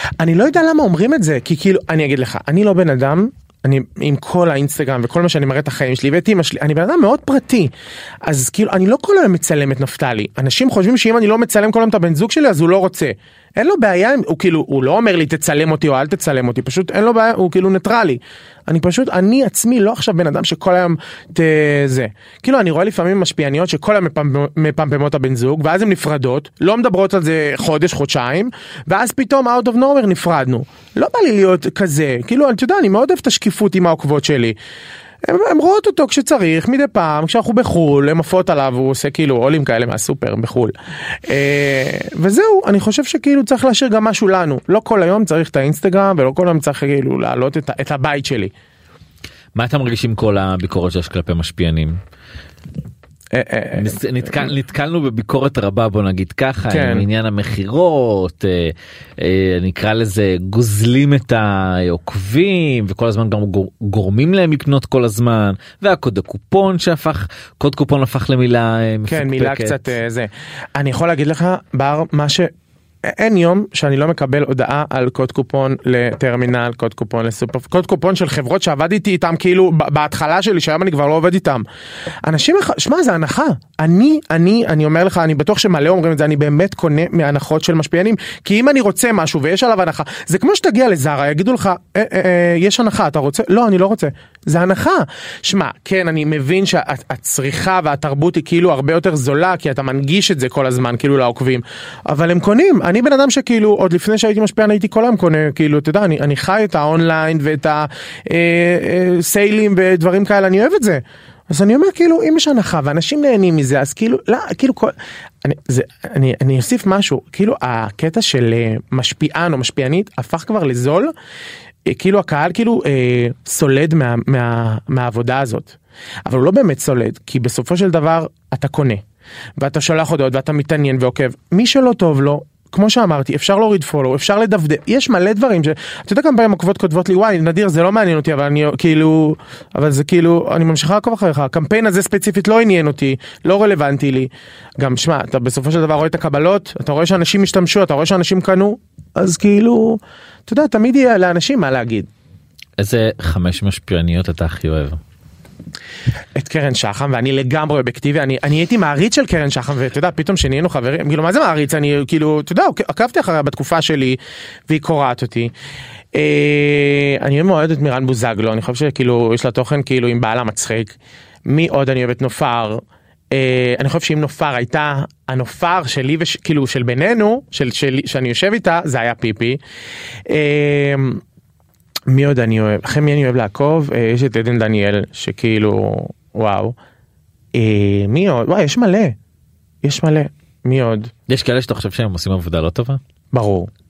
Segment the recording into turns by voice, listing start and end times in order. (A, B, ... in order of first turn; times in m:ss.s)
0:00.2-0:07.7 A
0:08.2-0:34.6 A
0:35.2-0:40.7 A
0:41.2-0:48.5 A
0:49.5-0:52.0 B
0:53.3-0:54.5 A
0:53.8-1:09.9 B
0:56.7-0:57.0 A
1:09.1-1:12.5 A
1:13.0-1:21.6 A
1:22.2-2:01.1 A
2:01.8-2:09.0 A
2:09.6-2:32.1 A
2:32.8-2:35.0 B
2:36.3-2:45.5 A
2:46.1-2:51.0 A
2:51.5-2:59.6 A
3:00.3-3:01.2 A
3:02.1-3:06.8 A
3:07.5-3:09.2 A
3:09.8-3:11.1 A
3:11.3-3:13.0 B
3:13.3-3:13.7 A